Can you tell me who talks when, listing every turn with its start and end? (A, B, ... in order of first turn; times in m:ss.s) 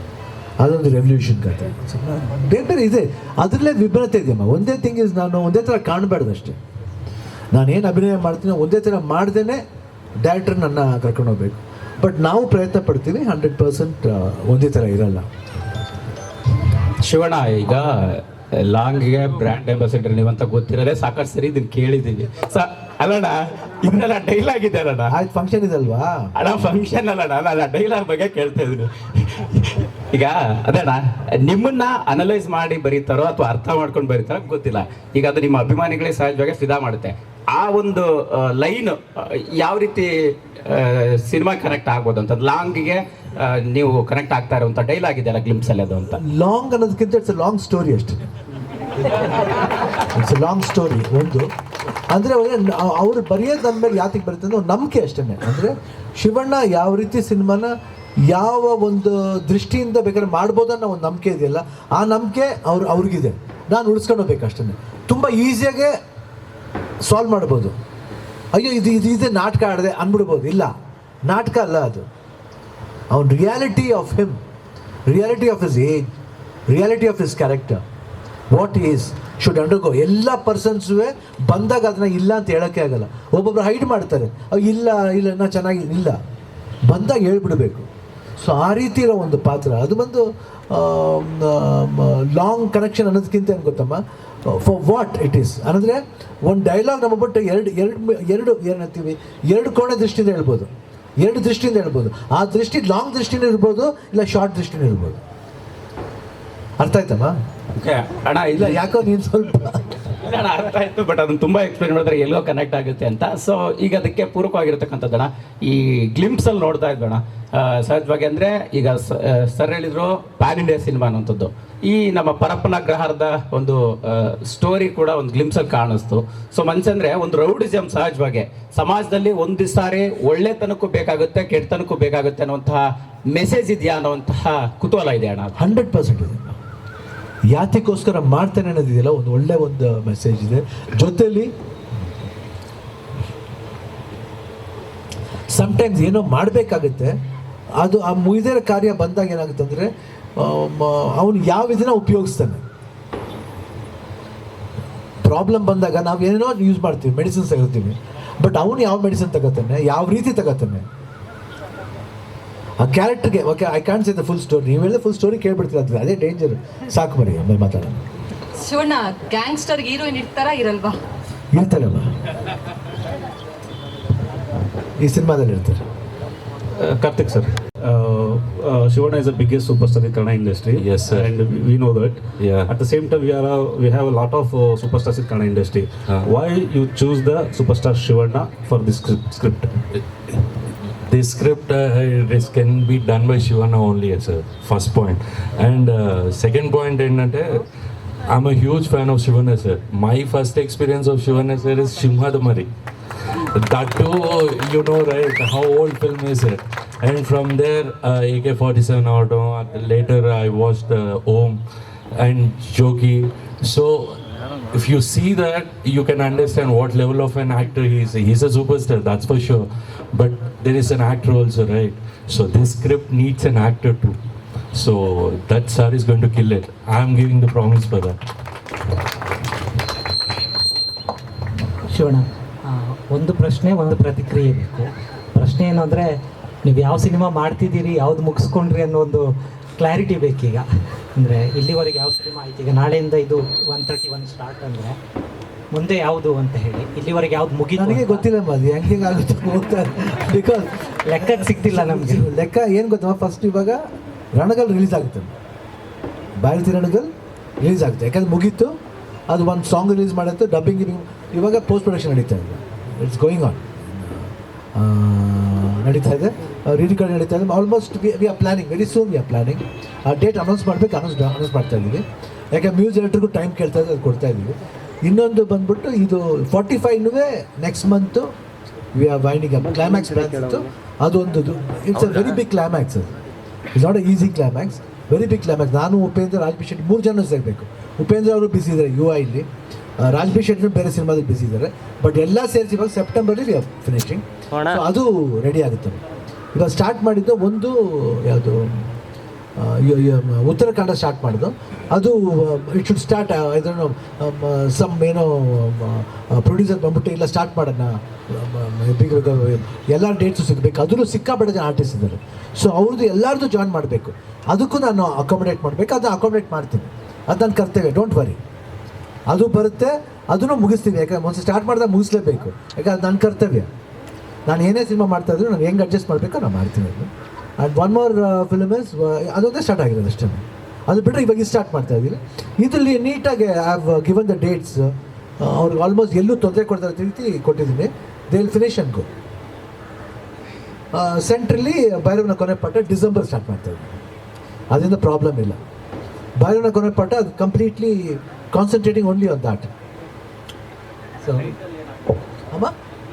0:00.6-0:06.6 A
0:07.5-0:09.6 A
0:10.2-0:15.3 A
0:17.0-0:25.1 B
0:25.1-0:26.3 A
0:26.4-0:46.2 B
0:46.2-0:48.2 A
0:50.1-0:51.5 A
0:52.1-0:57.8 A
0:58.3-1:06.0 A
1:07.0-1:07.8 A
1:08.5-1:10.7 A
1:11.2-1:12.1 A
1:13.1-1:14.4 A
1:15.1-1:16.1 A
1:16.7-1:17.8 A
1:18.5-1:26.2 A
1:26.9-1:27.9 A
1:28.4-1:45.2 A
1:46.8-1:47.4 A
1:47.8-1:48.8 B
1:48.5-1:49.8 A
1:50.2-2:15.5 B
2:15.6-2:16.6 A
2:17.5-2:21.5 A
2:25.5-2:27.2 A
2:27.8-2:32.6 A
2:35.2-2:40.9 A
2:42.8-2:48.0 A
2:48.6-2:51.0 C
2:51.5-2:52.1 A
2:55.0-2:55.9 A
2:56.8-3:09.7 D
3:00.8-3:01.3 E
3:02.4-3:02.7 E
3:11.1-3:17.7 E
3:18.3-3:22.7 E
3:23.5-3:31.6 E
3:32.2-3:34.2 E
3:34.7-3:44.2 E
3:44.7-3:48.2 E
3:51.9-3:59.3 F
3:59.8-4:00.6 F
4:01.2-4:05.0 F
4:05.7-4:08.3 F
4:07.8-4:13.8 A
4:11.1-4:12.3 F
4:14.4-4:15.3 A
4:16.4-4:17.1 A
4:17.6-4:18.7 A
4:19.3-4:38.3 A
4:38.9-4:43.1 A
4:43.8-4:49.5 A
4:50.0-4:56.0 A
4:56.5-4:58.9 A
4:59.6-5:18.4 A
5:19.3-5:23.7 A
5:24.5-5:39.1 A
5:40.9-5:44.0 A
5:44.7-5:45.6 A
5:46.4-5:49.7 A
5:51.2-5:51.5 F